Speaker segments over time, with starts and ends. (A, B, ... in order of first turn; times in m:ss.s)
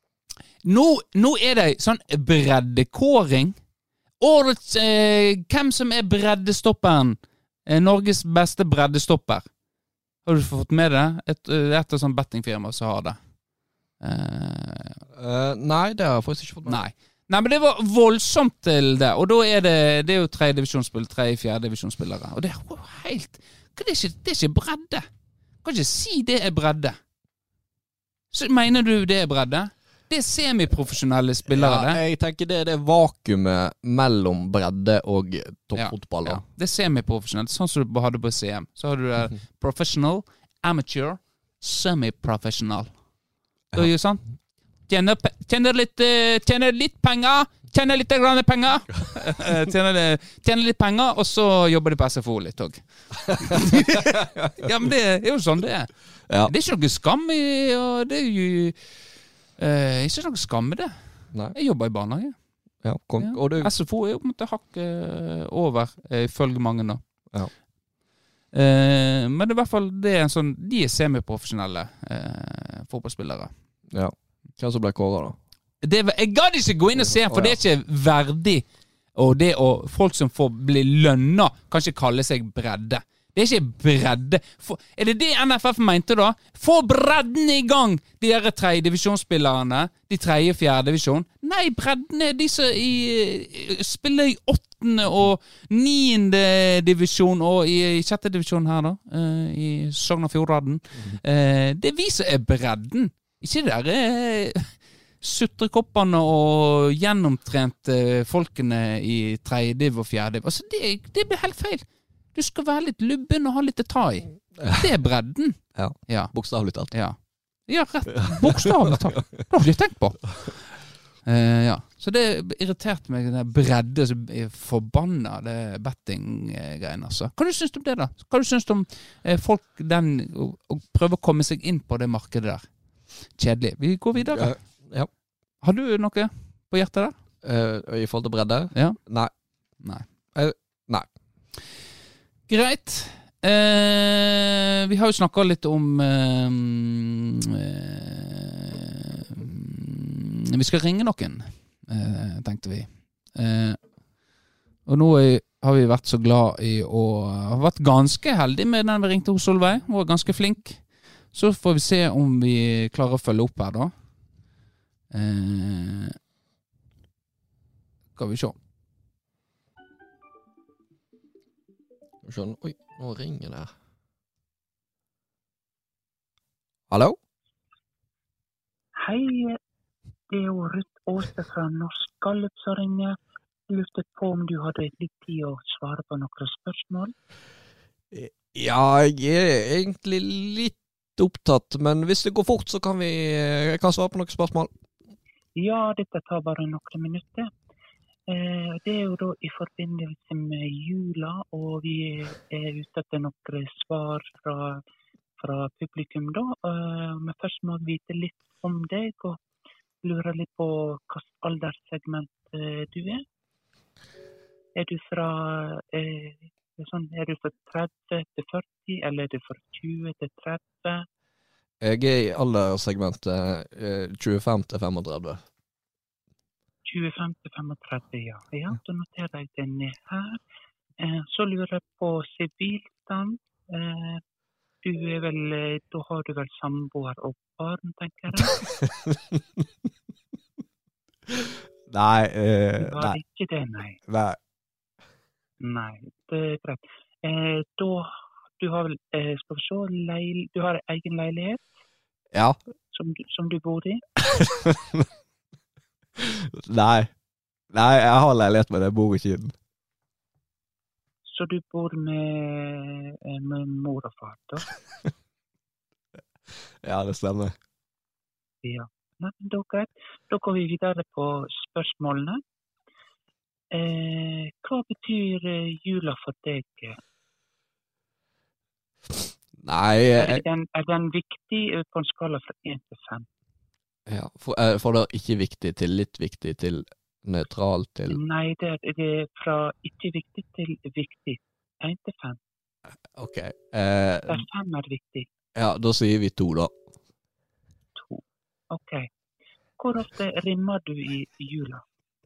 0:00.6-0:03.6 A
0:04.2-0:09.5 A
0:10.2-0:13.2 A
0:14.0-0:15.0 A
0:15.2-0:16.8 B
0:16.7-0:25.0 A
0:25.6-0:27.0 A
0:28.3-0:32.0 A
0:31.5-0:36.4 B
0:35.8-0:42.9 A
0:43.7-0:44.2 A
0:44.9-1:02.4 A
0:53.3-0:54.7 B
1:02.8-1:03.7 B
1:03.2-1:07.0 A
1:08.5-1:13.5 A
1:13.9-1:15.4 B
1:15.8-2:14.7 A
1:17.0-1:17.6 B
1:54.6-1:54.9 B
1:55.8-1:57.0 B
1:58.2-1:59.0 B
2:14.2-2:15.1 B
2:15.6-2:17.1 A
2:17.4-2:19.3 B
2:19.8-2:20.0 A
2:20.4-2:21.1 B
2:22.5-2:33.8 A
2:34.9-2:43.9 A
2:45.1-2:46.2 A
2:48.2-2:48.6 A
2:52.2-2:53.7 B
2:56.9-2:57.2 B
2:59.0-2:59.6 C
3:00.3-3:03.2 C
3:03.7-3:07.1 C
3:08.1-3:14.7 B
3:15.6-3:17.5 C
3:18.3-3:24.8 C
3:25.4-3:29.4 C
3:30.0-3:33.2 C
3:34.8-3:41.1 C
3:41.8-3:45.4 B
3:46.9-3:50.4 C
3:51.0-3:54.2 C
3:54.8-3:58.7 C
3:58.7-3:59.6 B
4:01.9-4:03.2 B
4:02.8-4:04.0 C
4:04.1-4:04.4 B
4:05.6-4:11.6 C
4:12.9-4:14.0 C
4:14.3-4:15.1 B
4:16.2-4:17.1 B
4:17.7-4:19.5 B
4:21.3-4:24.7 C
4:26.8-4:27.6 B
4:28.6-4:32.4 C
4:33.7-4:37.0 C
4:39.6-4:40.4 B
4:40.2-4:43.3 C
4:44.1-4:48.2 B
4:48.1-4:52.4 C
4:53.2-4:54.4 B
4:54.3-4:55.3 C
4:55.6-4:56.7 B
4:58.0-4:59.1 C
4:59.8-5:01.8 C